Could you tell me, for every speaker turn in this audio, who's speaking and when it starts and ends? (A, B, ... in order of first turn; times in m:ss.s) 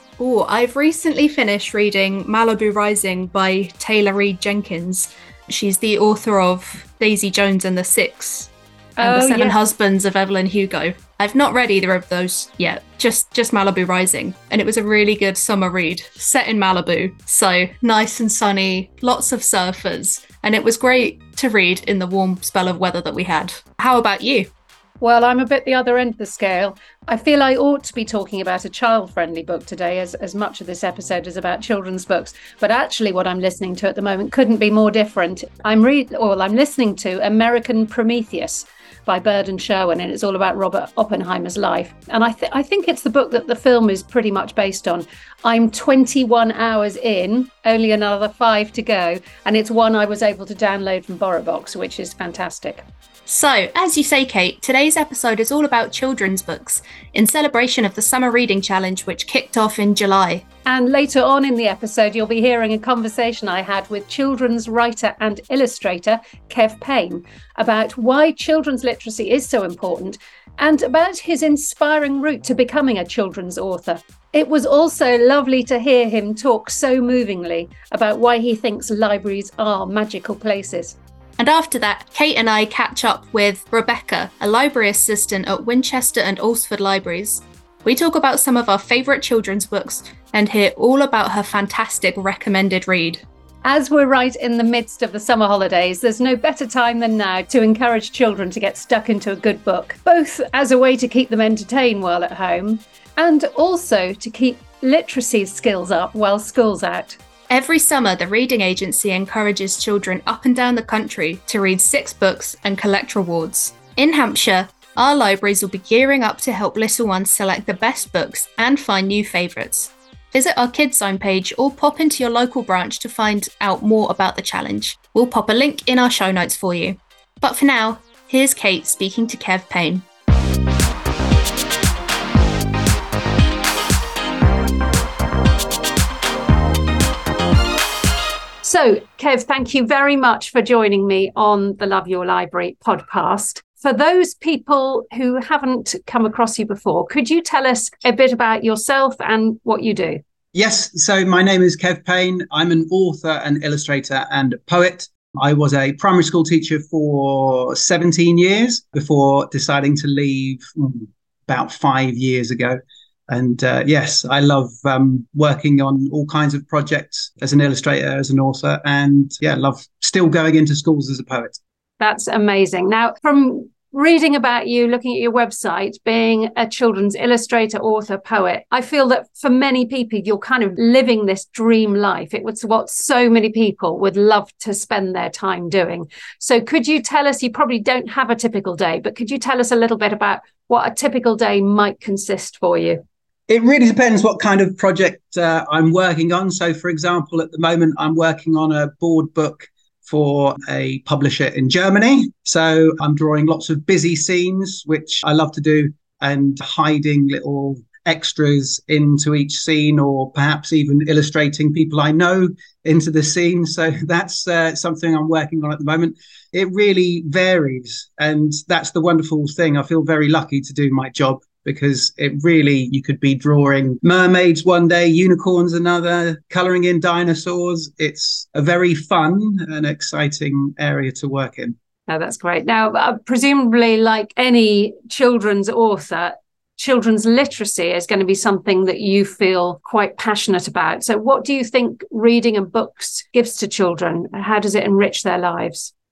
0:00.2-0:24.5 A
0:09.0-0:09.6 B
0:25.0-0:52.8 B
0:53.3-1:00.4 A
1:00.6-1:21.0 B
1:21.4-1:33.2 A
1:33.6-1:47.2 B
1:47.5-2:10.0 A
2:18.6-2:30.2 B
2:30.5-2:51.6 C
2:52.0-3:13.0 B
3:13.5-3:51.8 C
3:52.1-4:05.9 B